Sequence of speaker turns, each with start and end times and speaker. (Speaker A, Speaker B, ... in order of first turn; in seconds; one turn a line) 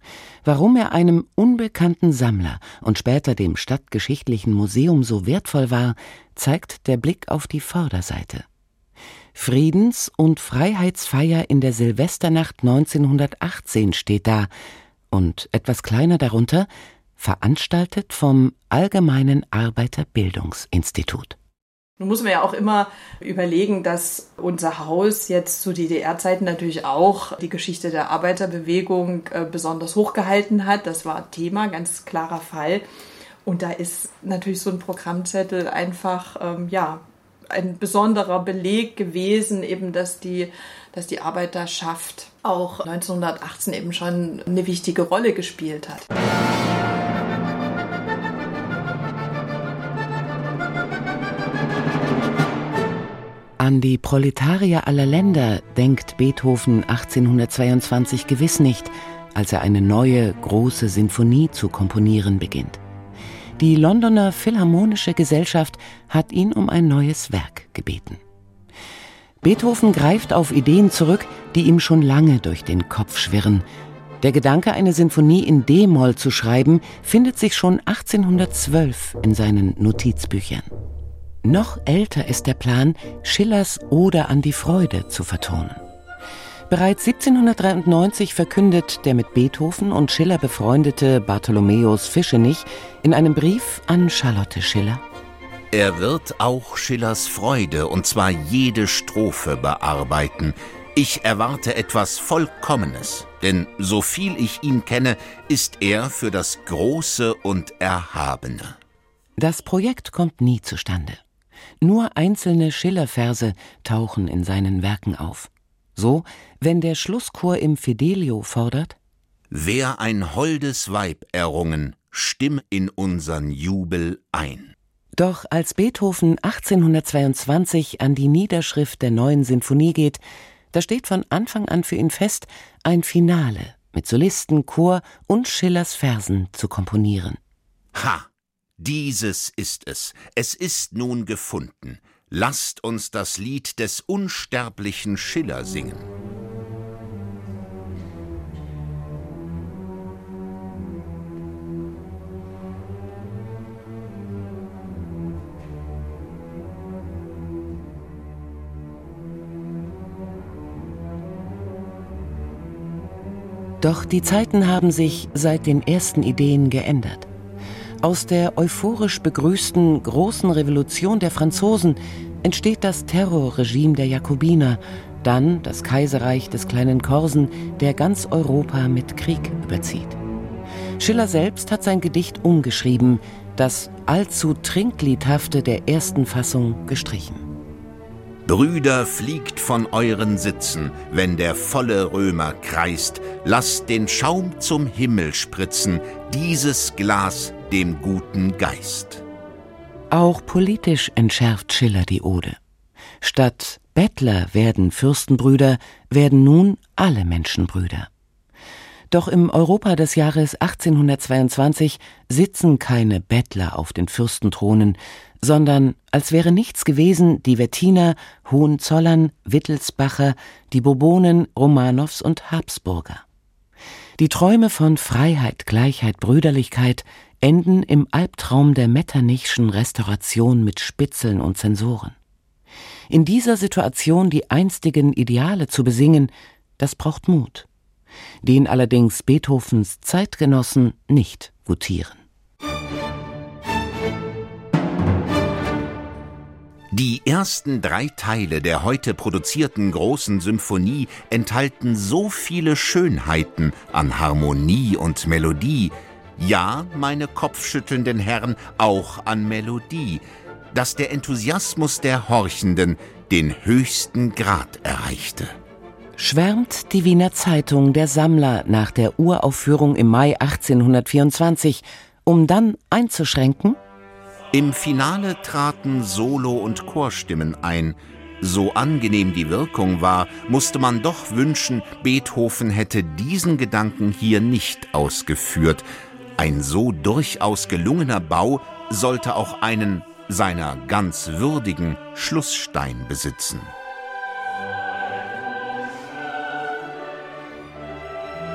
Speaker A: 0.4-8.5
Speaker A: 9.3-14.5
Speaker A: 15.1-21.4
Speaker B: 22.0-32.9
Speaker B: 33.5-46.1
Speaker A: 53.6-62.8
Speaker A: 63.6-68.2
Speaker A: 69.4-73.7
Speaker A: 74.2-80.7
Speaker A: 81.4-85.8
Speaker A: 86.7-95.0
Speaker C: 95.7-108.8
Speaker A: 109.4-111.2
Speaker A: 111.8-119.0
Speaker C: 119.5-124.8
Speaker A: 125.2-130.2
Speaker A: 130.7-137.4
Speaker C: 137.9-138.3
Speaker C: 138.8-146.1
Speaker A: 163.8-167.3
Speaker A: 168.0-180.2
Speaker A: 181.0-187.5
Speaker C: 188.5-199.2
Speaker A: 200.1-202.6
Speaker A: 203.2-208.1
Speaker A: 209.1-223.2
Speaker A: 224.2-232.2
Speaker A: 233.1-237.7
Speaker A: 238.4-242.2
Speaker C: 246.9-265.5
Speaker A: 266.2-273.8
Speaker C: 274.5-285.9
Speaker C: 286.4-293.7